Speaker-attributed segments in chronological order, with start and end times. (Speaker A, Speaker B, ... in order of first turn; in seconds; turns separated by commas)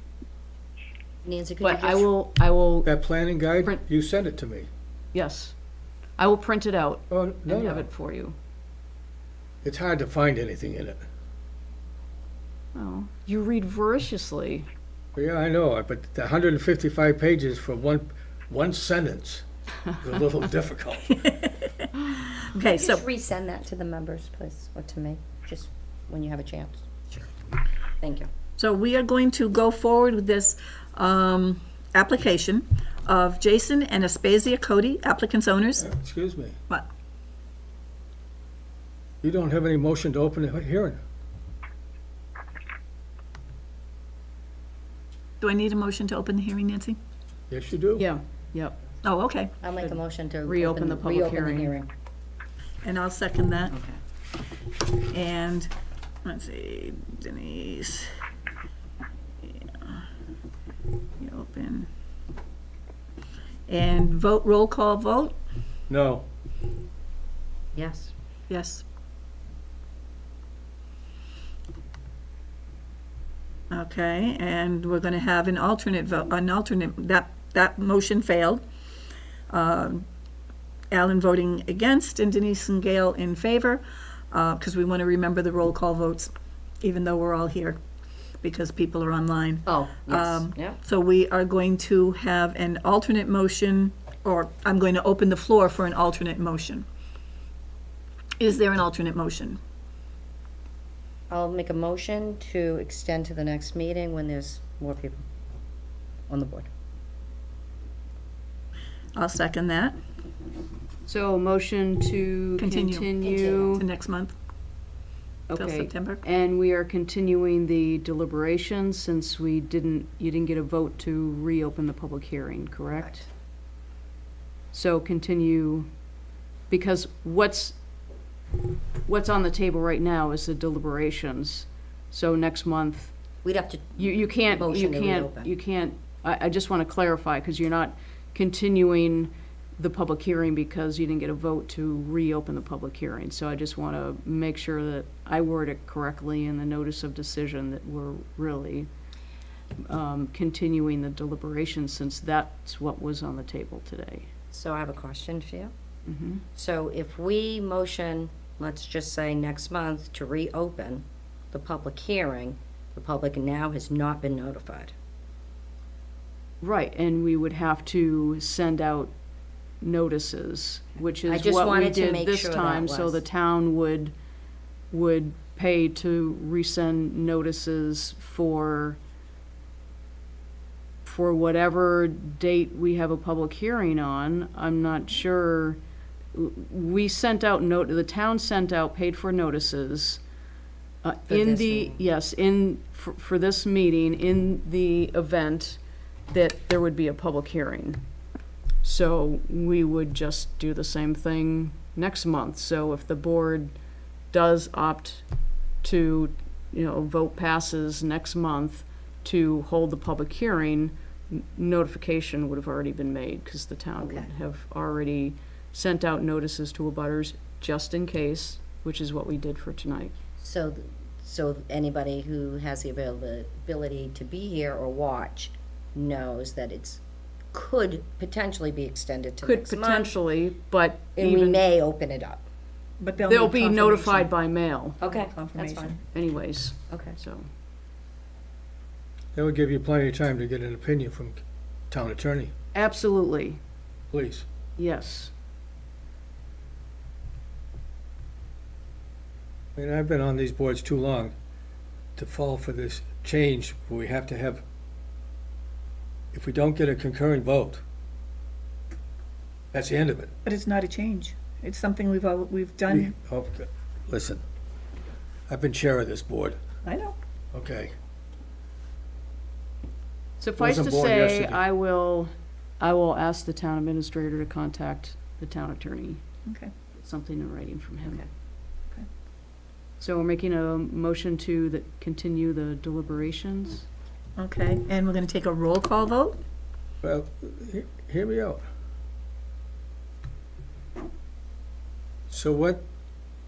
Speaker A: 1.2-2.1, Speaker B: 1.6-2.9, Speaker C: 2.8-4.7, Speaker B: 5.1-5.5, Speaker B: 6.2-8.3, Speaker C: 7.1-7.9, Speaker C: 9.6-11.0, Speaker B: 12.7-14.7, Speaker C: 15.1-19.4, Speaker C: 20.0-21.2, Speaker D: 21.1-23.0, Speaker A: 22.7-27.3, Speaker A: 28.0-28.3, Speaker D: 28.6-35.9, Speaker C: 35.8-36.6, Speaker C: 39.2-41.0, Speaker D: 45.4-47.0, Speaker C: 47.5-48.0, Speaker B: 48.0-48.8, Speaker D: 49.0-49.5, Speaker A: 49.6-51.9, Speaker B: 49.8-51.7, Speaker D: 52.8-53.8, Speaker A: 53.7-54.0, Speaker D: 55.1-55.7, Speaker D: 56.2-58.1, Speaker D: 59.4-60.0, Speaker D: 61.2-61.9, Speaker D: 63.7-65.4, Speaker C: 65.9-66.3, Speaker A: 67.7-68.1, Speaker D: 68.5-68.8, Speaker D: 73.7-78.6, Speaker D: 79.5-80.0, Speaker D: 80.9-87.8, Speaker D: 88.4-96.8, Speaker A: 89.7-90.8, Speaker D: 98.4-99.6, Speaker A: 101.3-105.2, Speaker A: 106.3-106.7, Speaker D: 109.1-110.0, Speaker B: 111.0-113.8, Speaker D: 112.6-113.1, Speaker A: 113.2-113.8, Speaker D: 113.7-114.3, Speaker B: 115.5-123.3, Speaker D: 115.5-116.2, Speaker B: 124.7-125.9, Speaker B: 126.7-127.8, Speaker B: 129.1-133.1, Speaker A: 133.4-135.5, Speaker B: 134.0-148.9, Speaker B: 149.8-154.3, Speaker A: 154.5-155.7, Speaker B: 156.1-156.4, Speaker A: 156.5-164.9, Speaker B: 166.6-169.1, Speaker B: 169.8-174.1, Speaker A: 171.3-173.2, Speaker B: 174.9-179.0, Speaker B: 181.0-185.8, Speaker B: 186.3-190.2, Speaker B: 191.0-198.0, Speaker A: 191.3-192.0, Speaker B: 198.8-203.7, Speaker B: 204.3-205.2, Speaker B: 205.8-220.1, Speaker A: 214.0-214.3, Speaker A: 220.4-227.0, Speaker A: 227.5-230.1, Speaker B: 229.4-231.6, Speaker A: 231.2-232.4, Speaker D: 233.0-234.3, Speaker B: 233.3-235.0, Speaker A: 235.0-236.0, Speaker D: 235.0-236.0, Speaker B: 236.1-237.5, Speaker A: 236.9-237.2, Speaker C: 239.3-242.5, Speaker B: 242.7-243.6, Speaker C: 244.1-244.4, Speaker B: 244.8-245.3, Speaker C: 249.8-251.3, Speaker C: 252.2-254.6, Speaker C: 256.3-257.8, Speaker C: 259.7-260.3, Speaker D: 260.4-263.1, Speaker C: 262.9-264.4, Speaker C: 265.5-266.6, Speaker D: 266.8-267.1, Speaker C: 267.5-267.9, Speaker B: 270.4-276.2, Speaker C: 270.6-271.6, Speaker D: 276.5-276.7, Speaker B: 276.9-278.2, Speaker B: 280.0-283.9, Speaker D: 284.4-286.4, Speaker C: 287.0-288.6, Speaker C: 292.3-292.8